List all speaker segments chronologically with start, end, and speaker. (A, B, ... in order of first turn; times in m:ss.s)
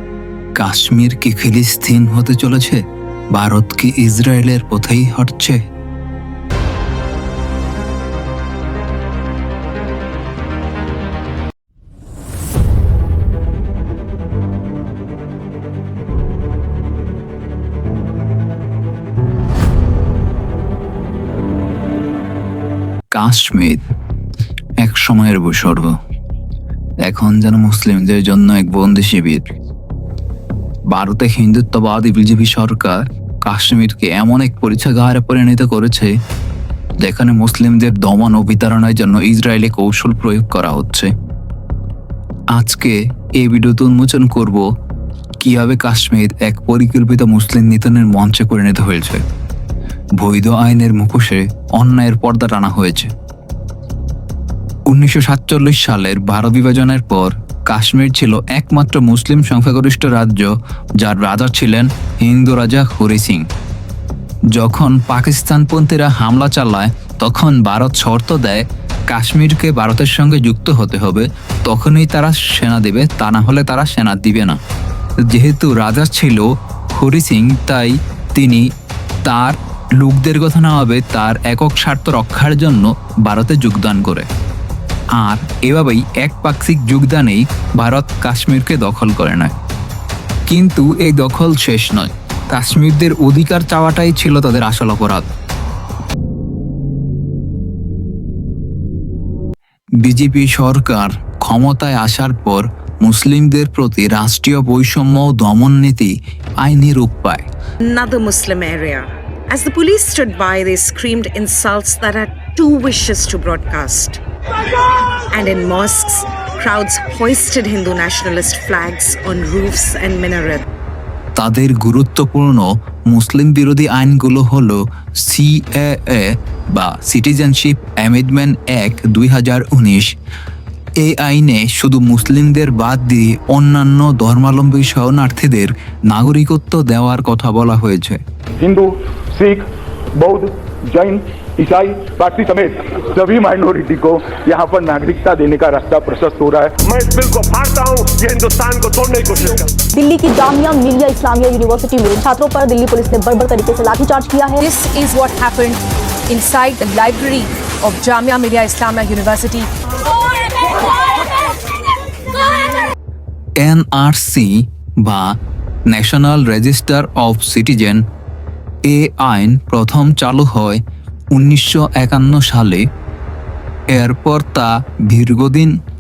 0:00.6-0:05.6 A
0:23.1-0:23.8 A
0:24.8-0:26.0 A
0:27.0-0:29.5 A
0:30.9-0:36.2 A
0:37.0-0:41.1 A
0:42.5-0:44.7 A
0:45.4-0:49.3 A
0:50.2-0:53.1 A
0:54.9-1:03.5 A
1:04.5-1:14.6 A
1:15.2-1:18.7 A
1:19.2-1:24.3 A
1:25.2-1:29.5 A
1:30.5-1:35.3 A
1:40.0-1:47.4 A
1:47.8-1:54.2 B
1:55.3-2:00.6 B
2:01.4-2:10.1 A
2:11.0-2:18.2 A
2:18.6-2:26.8 C
2:26.8-2:29.6 D
2:29.9-2:34.6 E
2:34.6-2:39.7 F
2:43.6-2:48.0 A
2:48.8-2:50.8 A
2:51.3-2:52.9 A
2:53.9-2:55.8 A